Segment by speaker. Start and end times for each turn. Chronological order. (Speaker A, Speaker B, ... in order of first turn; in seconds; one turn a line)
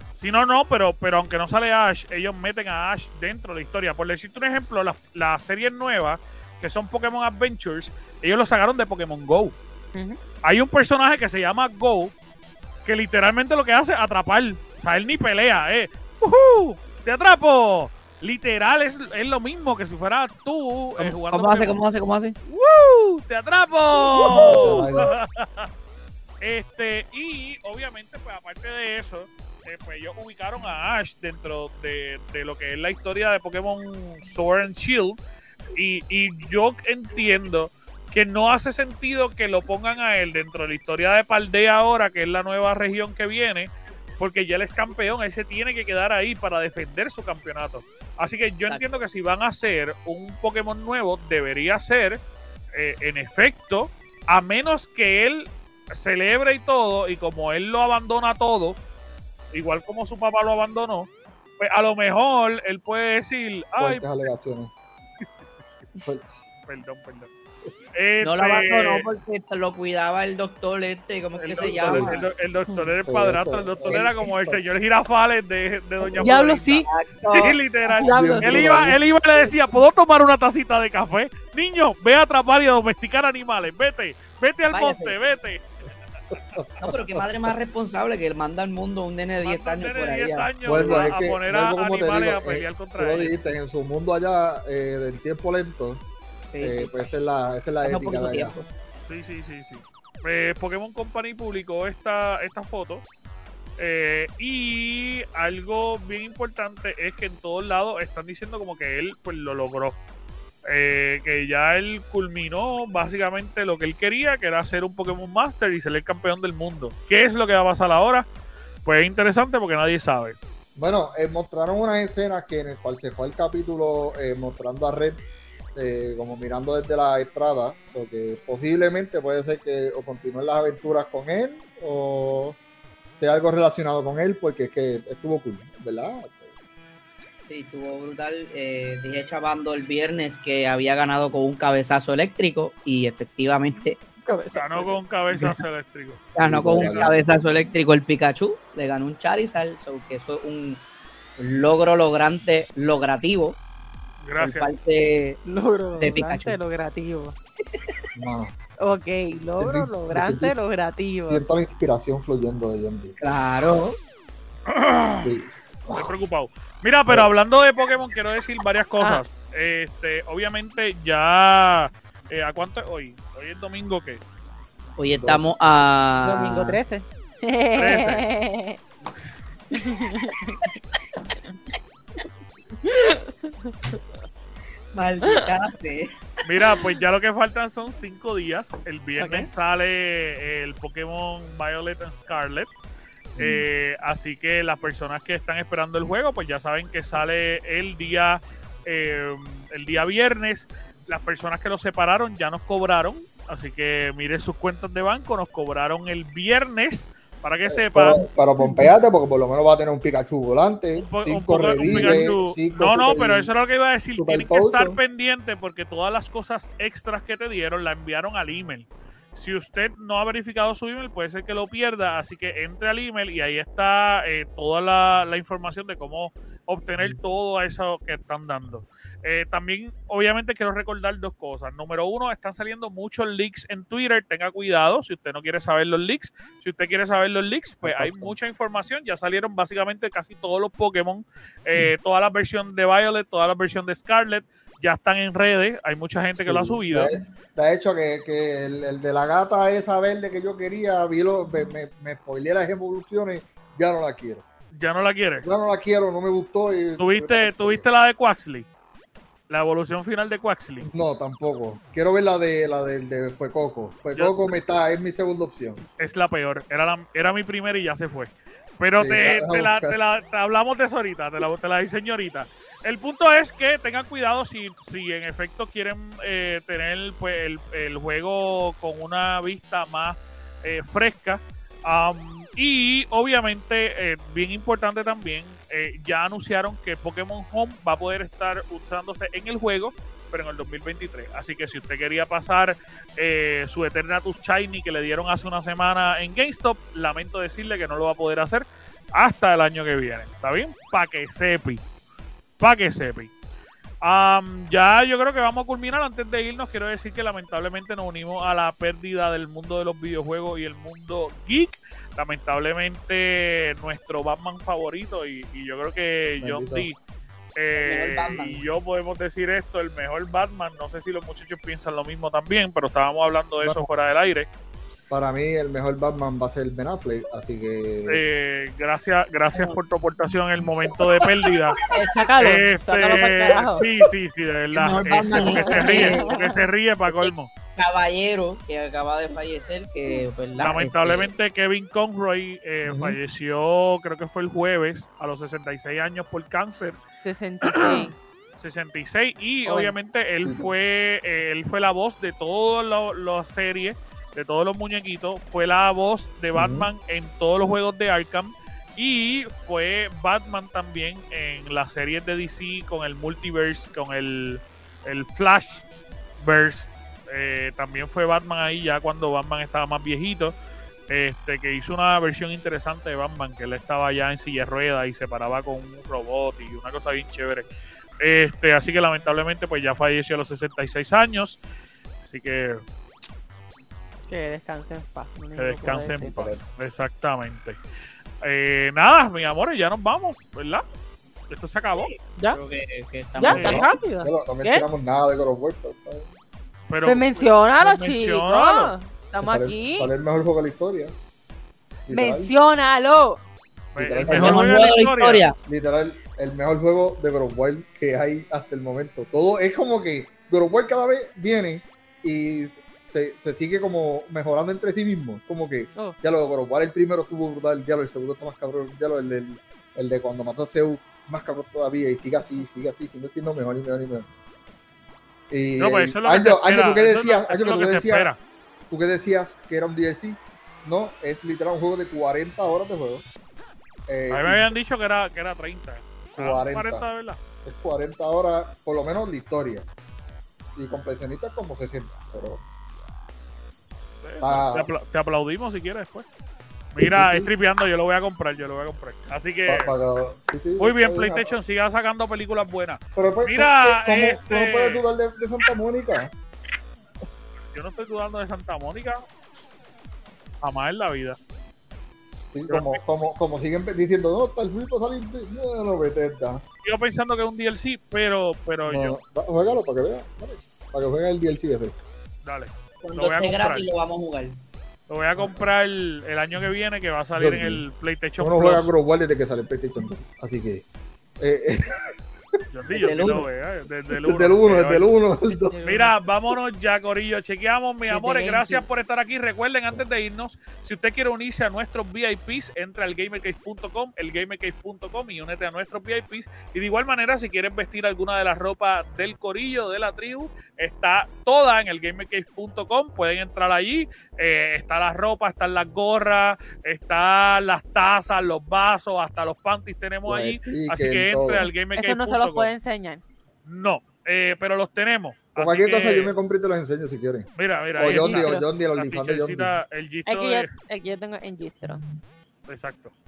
Speaker A: 0.1-9.6
Speaker A: 10.4-12.1
Speaker A: 12.8-21.8
Speaker B: 21.0-22.4
Speaker A: 22.4-25.7
Speaker C: 24.3-25.1
Speaker A: 26.4-35.2
Speaker A: 35.7-52.2
Speaker A: 52.7-58.8
Speaker A: 59.5-61.1
Speaker A: 61.6-64.0
Speaker C: 63.8-64.7
Speaker A: 66.7-67.3
Speaker A: 67.9-69.0
Speaker B: 68.2-72.3
Speaker A: 71.3-85.7
Speaker C: 71.6-72.2
Speaker C: 73.0-74.0
Speaker B: 73.8-74.7
Speaker D: 76.2-76.8
Speaker B: 76.8-77.6
Speaker D: 77.9-78.6
Speaker C: 78.1-79.0
Speaker B: 84.7-85.2
Speaker C: 86.3-87.5
Speaker B: 86.8-91.1
Speaker A: 89.4-93.3
Speaker C: 90.6-96.0
Speaker B: 96.5-97.0
Speaker C: 96.6-98.5
Speaker B: 97.8-98.7
Speaker A: 99.1-103.0
Speaker A: 103.8-110.0
Speaker A: 110.7-118.3
Speaker A: 118.8-120.4
Speaker C: 120.8-125.2
Speaker C: 125.7-132.6
Speaker C: 133.2-136.5
Speaker B: 137.4-144.0
Speaker D: 144.2-144.9
Speaker A: 144.5-146.2
Speaker B: 146.3-150.8
Speaker C: 146.4-147.2
Speaker B: 151.4-153.6
Speaker A: 154.2-154.7
Speaker B: 154.4-155.4
Speaker D: 155.4-157.3
Speaker B: 156.0-156.6
Speaker C: 158.2-158.5
Speaker D: 158.8-161.4
Speaker C: 159.6-160.6
Speaker C: 161.2-163.2
Speaker B: 163.2-164.0
Speaker A: 164.7-165.3
Speaker C: 165.2-166.1
Speaker A: 165.9-174.2
Speaker B: 175.0-176.8
Speaker C: 175.1-175.4
Speaker D: 176.2-178.8
Speaker A: 177.7-178.3
Speaker D: 179.7-180.7
Speaker D: 182.8-183.7
Speaker B: 184.9-186.1
Speaker A: 186.4-192.7
Speaker D: 189.2-189.5
Speaker A: 193.4-208.2
Speaker C: 207.7-213.5
Speaker D: 208.6-208.8
Speaker A: 210.9-247.1
Speaker D: 211.8-212.3
Speaker C: 214.2-215.0
Speaker C: 237.8-238.3
Speaker C: 246.4-254.4
Speaker A: 254.7-255.5
Speaker C: 255.4-257.8
Speaker A: 257.0-258.7
Speaker A: 259.5-260.9
Speaker C: 260.8-265.8
Speaker A: 264.1-264.5
Speaker A: 266.0-301.8
Speaker C: 268.9-270.0
Speaker A: 302.6-303.3
Speaker A: 304.0-317.0
Speaker C: 316.4-316.9
Speaker A: 317.6-324.5
Speaker B: 317.7-318.6
Speaker C: 323.6-323.9
Speaker C: 325.1-328.2
Speaker A: 328.1-331.8
Speaker C: 331.0-332.0
Speaker D: 331.9-333.8
Speaker A: 332.4-337.5
Speaker C: 333.5-334.0
Speaker B: 334.7-336.3
Speaker D: 335.4-336.3
Speaker B: 337.1-341.3
Speaker A: 340.6-347.1
Speaker C: 342.9-343.2
Speaker D: 347.1-348.1
Speaker A: 347.6-365.9
Speaker D: 349.6-349.9
Speaker C: 350.4-350.7
Speaker C: 356.5-356.9
Speaker A: 366.4-370.5
Speaker A: 371.1-377.7
Speaker A: 378.2-381.6
Speaker A: 382.2-382.8
Speaker D: 384.3-386.6
Speaker A: 385.6-387.8
Speaker A: 388.4-390.8
Speaker A: 391.5-392.1
Speaker B: 392.5-393.8
Speaker D: 393.4-394.8
Speaker C: 393.5-396.3
Speaker A: 393.5-393.9
Speaker A: 396.9-398.9
Speaker D: 397.0-400.1
Speaker C: 399.4-401.1
Speaker C: 402.1-402.5
Speaker D: 402.1-403.4
Speaker A: 403.9-405.4
Speaker C: 403.9-404.9
Speaker B: 404.3-405.6
Speaker C: 405.6-424.3
Speaker D: 422.3-422.6
Speaker C: 425.5-428.3
Speaker A: 425.8-428.4
Speaker C: 428.9-433.2
Speaker C: 434.1-434.7
Speaker A: 434.3-437.4
Speaker C: 436.4-437.0
Speaker C: 437.6-439.9
Speaker C: 440.8-442.6
Speaker A: 444.2-446.2
Speaker C: 444.4-444.9
Speaker A: 446.9-449.9
Speaker C: 447.0-447.5
Speaker C: 449.7-451.6
Speaker A: 450.8-455.0
Speaker C: 453.1-456.3
Speaker A: 457.7-459.2
Speaker A: 460.6-461.4
Speaker C: 462.5-466.6
Speaker A: 462.7-463.0
Speaker A: 466.8-469.2
Speaker C: 468.9-471.9
Speaker A: 472.4-473.9
Speaker B: 473.0-474.6
Speaker A: 475.1-478.9
Speaker C: 475.4-475.7
Speaker C: 477.4-477.8
Speaker C: 478.4-480.8
Speaker C: 481.4-482.1
Speaker A: 482.7-485.1
Speaker C: 482.9-483.4
Speaker B: 482.9-483.4
Speaker C: 484.1-485.8
Speaker D: 485.7-486.1
Speaker A: 485.8-512.7
Speaker D: 488.1-488.8
Speaker C: 510.2-511.7
Speaker D: 511.9-513.2
Speaker A: 513.6-516.3
Speaker C: 515.5-519.7
Speaker A: 517.6-520.7
Speaker D: 518.1-518.6
Speaker D: 520.3-522.0
Speaker A: 522.7-523.1